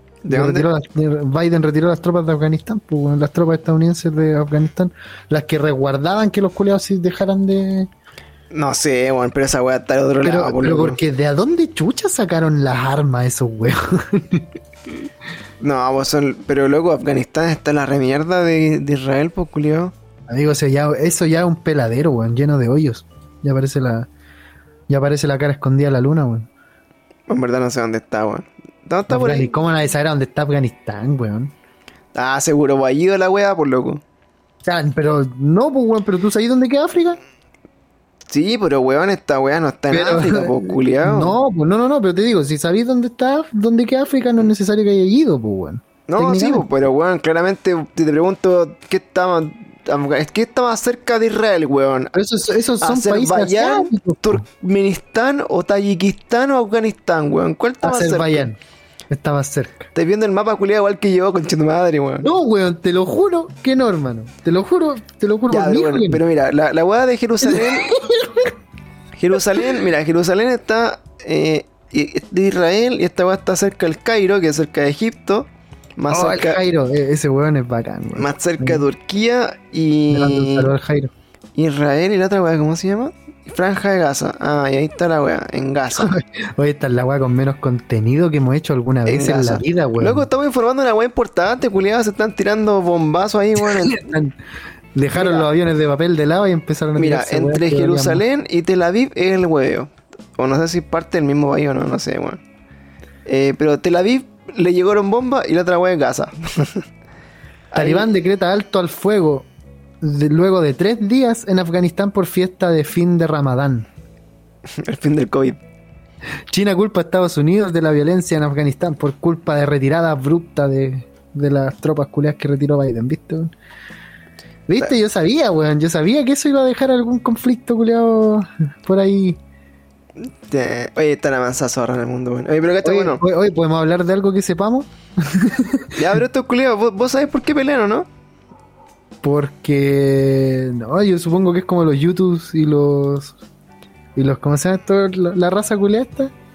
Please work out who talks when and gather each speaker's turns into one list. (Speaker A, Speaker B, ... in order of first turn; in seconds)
Speaker A: 0.2-0.7, 8.5-11.0, 15.6-19.9, 27.3-29.5, 32.1-34.0, 38.3-41.4, 46.1-52.1, 52.8-58.5, 60.0-62.3, 65.5-67.9, 69.2-76.6, 78.2-80.7, 81.6-86.2, 89.1-94.1, 95.2-95.5, 97.0-102.4, 103.3-106.9, 107.7-108.1, 114.7-115.6, 130.2-133.2, 135.9-138.1
Speaker B: 0.3-7.9, 10.2-14.5, 20.3-24.1, 24.9-26.5, 29.1-31.6, 34.6-37.2, 39.9-46.6, 52.1-54.4, 57.8-58.6, 59.1-59.9, 62.2-66.2, 67.5-68.5, 76.1-78.8, 80.1-81.1, 86.0-90.3, 93.6-94.4, 95.0-98.2, 107.8-109.5, 110.0-113.9, 116.5-123.5, 124.7-129.4, 132.8-136.2, 139.2-143.4, 144.2-146.3